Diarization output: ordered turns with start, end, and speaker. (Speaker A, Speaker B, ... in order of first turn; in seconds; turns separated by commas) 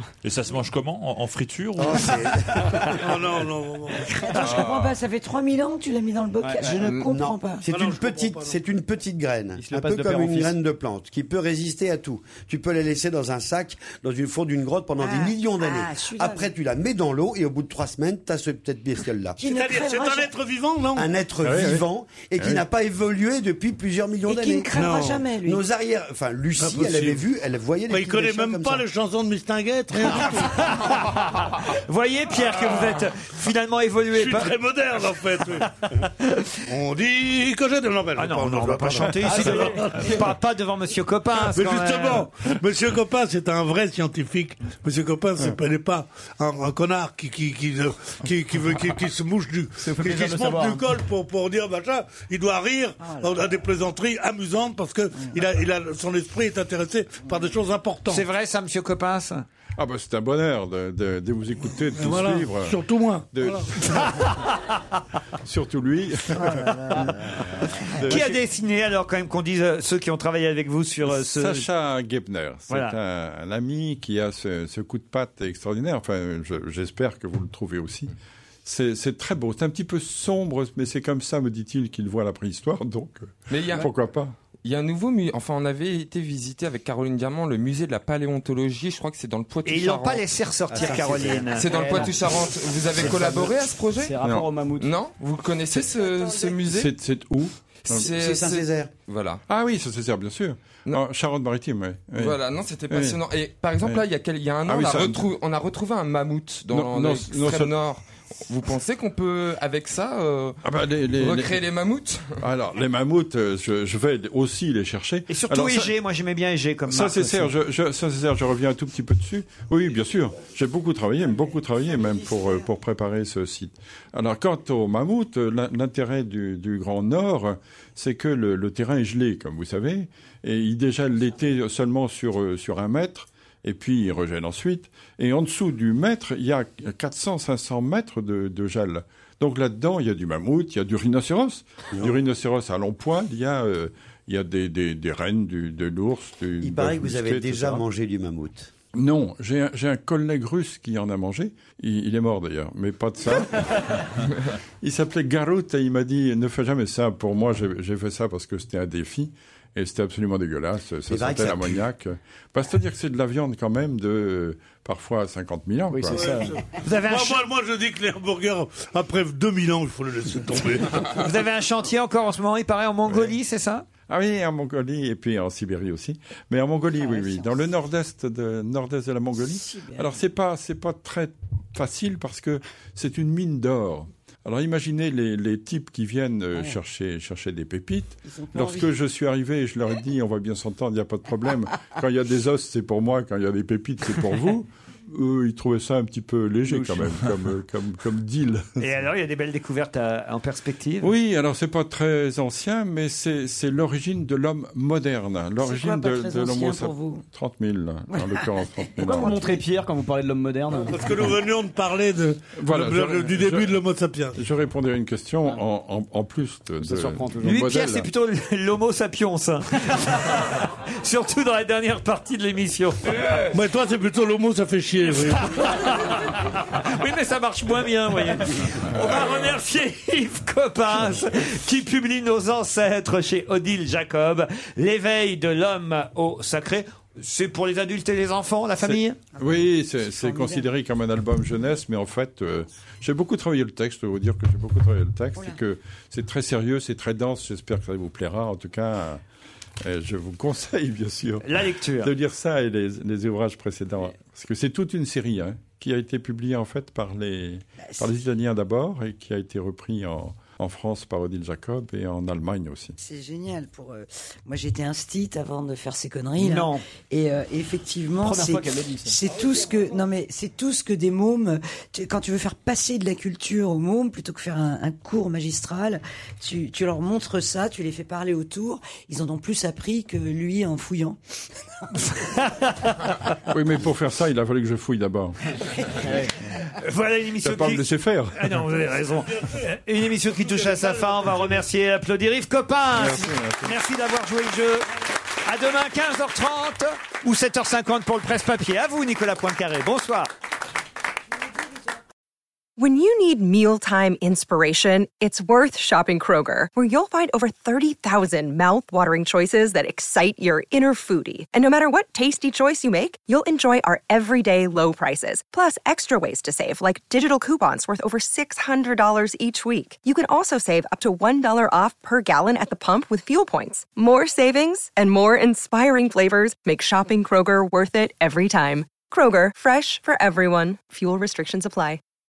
Speaker A: 0.2-2.4, Speaker B: 1.8-3.4, Speaker C: 3.0-4.4, Speaker D: 4.0-7.7, Speaker E: 4.3-5.0, Speaker F: 6.4-6.9, Speaker B: 6.8-19.4, Speaker C: 7.7-8.6, Speaker F: 9.6-10.6, Speaker D: 15.0-16.5, Speaker D: 19.4-20.3, Speaker C: 19.4-21.1, Speaker B: 20.9-28.9, Speaker G: 21.4-21.8, Speaker G: 22.4-22.6, Speaker D: 24.3-25.6, Speaker C: 24.7-25.3, Speaker C: 26.6-27.2, Speaker C: 27.9-30.8, Speaker H: 30.5-34.6, Speaker C: 34.1-35.7, Speaker H: 36.0-36.5, Speaker C: 36.6-40.4, Speaker H: 38.2-42.3, Speaker F: 39.4-39.7, Speaker C: 41.4-58.3, Speaker F: 49.8-50.9, Speaker D: 53.0-53.4, Speaker H: 58.1-59.5, Speaker G: 59.8-62.8, Speaker C: 61.9-63.8, Speaker G: 63.3-64.2, Speaker H: 63.8-64.5, Speaker G: 65.4-68.4, Speaker H: 68.0-71.7, Speaker G: 71.0-78.1, Speaker H: 72.7-73.0, Speaker G: 78.7-84.3, Speaker E: 83.5-83.9, Speaker E: 84.6-90.2, Speaker H: 89.7-91.7, Speaker B: 90.7-92.2, Speaker E: 91.5-94.2, Speaker F: 91.7-92.5, Speaker B: 92.9-93.6, Speaker F: 93.0-93.4, Speaker F: 94.0-94.9, Speaker E: 94.8-96.9, Speaker D: 96.1-96.6, Speaker G: 96.6-98.1, Speaker E: 97.8-99.4, Speaker B: 97.9-98.9, Speaker G: 99.5-102.4, Speaker E: 102.2-110.6, Speaker G: 102.9-103.2, Speaker G: 104.6-105.3, Speaker G: 106.7-107.7, Speaker G: 110.6-111.6, Speaker E: 111.2-112.4, Speaker G: 112.4-115.9, Speaker H: 115.3-117.5, Speaker G: 116.9-147.8, Speaker D: 122.0-122.6, Speaker B: 146.6-148.7, Speaker G: 148.9-154.2, Speaker G: 154.8-166.2, Speaker B: 161.1-161.9, Speaker F: 165.9-166.6, Speaker C: 166.1-171.1, Speaker H: 166.8-167.5, Speaker H: 171.1-173.9, Speaker G: 173.1-173.3, Speaker G: 174.1-198.7, Speaker D: 176.9-177.8, Speaker D: 179.4-180.2, Speaker D: 188.3-188.9, Speaker F: 196.7-196.9, Speaker H: 198.8-201.1, Speaker G: 201.0-209.4, Speaker D: 205.6-207.2, Speaker D: 208.1-208.9, Speaker F: 209.0-211.0, Speaker C: 210.7-214.4, Speaker G: 212.6-213.8, Speaker G: 214.3-218.1, Speaker F: 216.8-217.6, Speaker H: 217.4-223.2, Speaker E: 223.2-223.5, Speaker C: 223.5-225.8, Speaker H: 225.3-239.2, Speaker G: 238.8-249.2, Speaker D: 240.2-240.7, Speaker G: 249.8-251.5, Speaker H: 251.4-252.1, Speaker G: 252.0-262.9, Speaker D: 257.8-258.1, Speaker D: 263.0-281.2, Speaker H: 266.4-266.8, Speaker F: 268.2-269.1, Speaker H: 282.1-282.7, Speaker G: 283.5-285.4, Speaker F: 286.1-286.3, Speaker H: 286.8-294.9, Speaker G: 287.4-288.7, Speaker C: 288.8-289.7, Speaker C: 290.3-291.7, Speaker G: 292.9-293.8, Speaker H: 295.4-300.3, Speaker I: 302.8-332.0